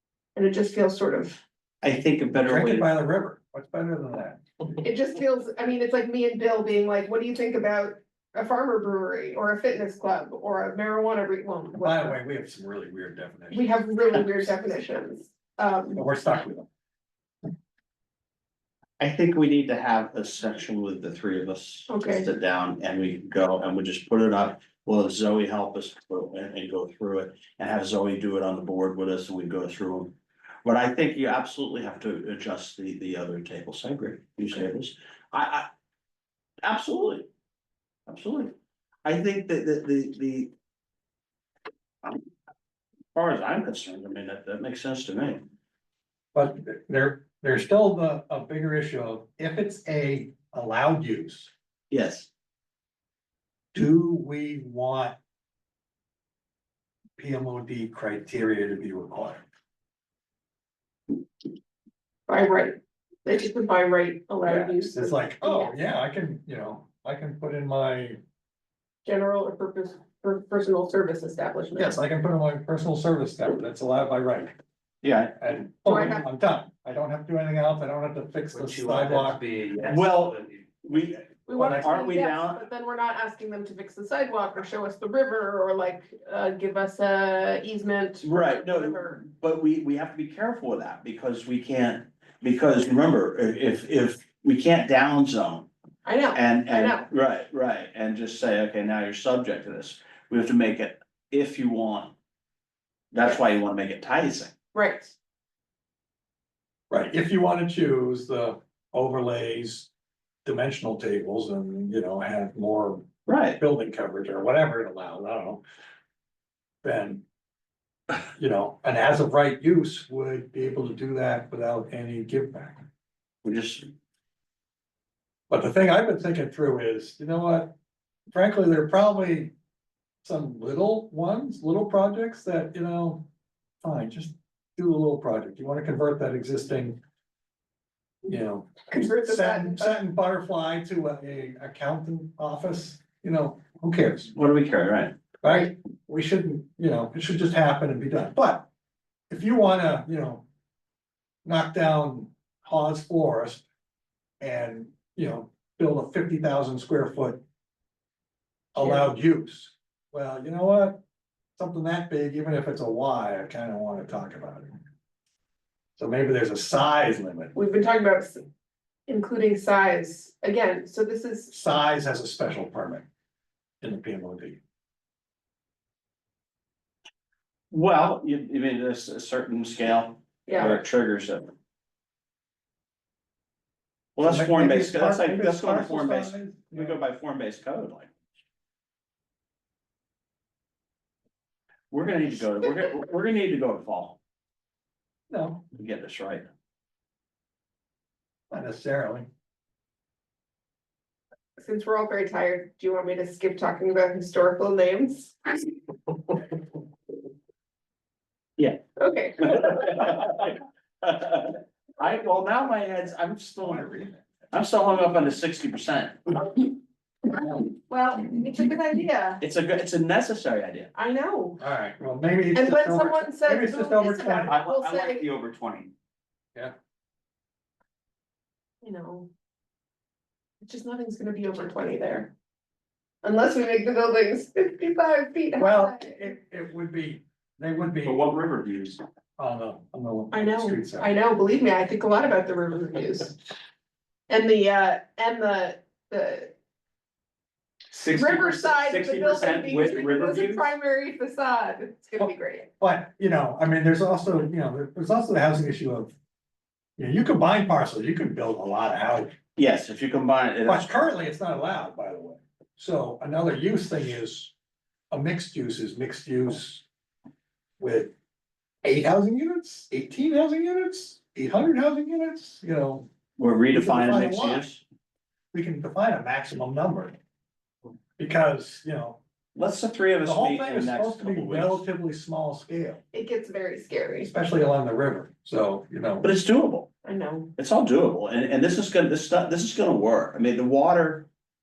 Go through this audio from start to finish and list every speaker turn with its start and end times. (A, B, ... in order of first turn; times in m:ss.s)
0:00.4-0:01.4 A
0:01.8-0:02.9 B
0:02.4-0:04.8 C
0:04.8-0:12.2 A
0:11.8-0:14.3 C
0:13.5-0:16.0 A
0:16.0-0:16.7 C
0:19.0-0:35.7 B
0:21.9-0:22.3 A
0:36.6-0:37.3 B
0:38.1-0:38.5 B
0:39.0-0:40.5 B
0:43.2-0:45.4 B
0:46.3-0:51.5 C
0:51.9-0:52.3 B
0:53.7-0:55.2 C
0:57.2-0:59.4 C
1:02.3-1:05.8 A
1:04.4-1:08.2 C
1:09.0-1:12.0 A
1:11.8-1:14.5 C
1:15.0-1:15.5 B
1:15.4-1:19.4 C
1:15.9-1:16.3 A
1:18.5-1:20.6 D
1:19.8-1:22.6 B
1:21.5-1:29.2 A
1:21.6-1:21.9 C
1:28.2-1:35.7 B
1:36.0-1:37.1 A
1:36.3-1:42.2 B
1:43.1-1:44.5 B
1:44.7-1:45.2 A
1:46.9-1:49.9 C
1:50.4-1:55.6 C
1:53.3-1:53.6 B
1:56.8-1:57.2 C
1:58.1-2:02.8 C
2:03.4-2:03.9 B
2:05.5-2:07.7 C
2:08.3-2:09.5 C
2:10.2-2:13.3 C
2:13.8-2:17.0 C
2:18.2-2:24.3 C
2:18.9-2:20.0 A
2:24.3-2:25.2 B
2:25.4-2:28.7 C
2:29.3-2:30.4 C
2:31.4-2:33.6 C
2:34.4-2:37.4 C
2:38.7-2:41.0 C
2:41.6-2:44.8 C
2:46.0-2:47.5 C
2:47.5-2:48.5 A
2:49.1-2:51.6 A
2:51.5-2:53.1 C
2:53.8-2:54.6 C
2:57.7-3:01.5 B
3:00.5-3:00.8 A
3:04.2-3:08.1 B
3:04.2-3:07.0 C
3:11.9-3:14.2 B
3:15.3-3:15.6 C
3:15.7-3:16.5 B
3:18.5-3:19.3 C
3:21.6-3:25.6 A
3:29.0-3:29.9 A
3:29.4-3:33.9 B
3:33.6-3:34.3 C
3:34.5-3:36.5 B
3:37.6-3:39.4 A
3:39.4-3:40.9 B
3:41.0-3:41.6 A
3:41.6-3:44.6 C
3:42.5-3:45.3 A
3:44.5-3:45.9 B
3:48.8-3:49.3 A
3:50.6-3:52.3 A
3:53.2-3:56.2 A
3:55.6-3:58.3 C
3:58.0-3:59.0 B
3:59.4-4:01.1 C
4:00.3-4:03.4 A
4:04.3-4:06.6 A
4:07.9-4:10.7 B
4:08.1-4:12.7 A
4:12.8-4:16.1 C
4:17.0-4:19.4 C
4:19.6-4:21.1 B
4:20.7-4:24.5 C
4:25.1-4:26.8 C
4:27.8-4:28.1 C
4:28.8-4:33.1 C
4:33.4-4:34.8 B
4:33.7-4:34.7 C
4:35.5-4:37.2 C
4:38.2-4:39.2 C
4:39.6-4:41.8 B
4:40.2-4:43.0 C
4:43.1-4:44.3 A
4:44.2-4:46.3 C
4:46.2-4:46.9 B
4:47.0-4:47.5 A
4:47.6-4:51.3 B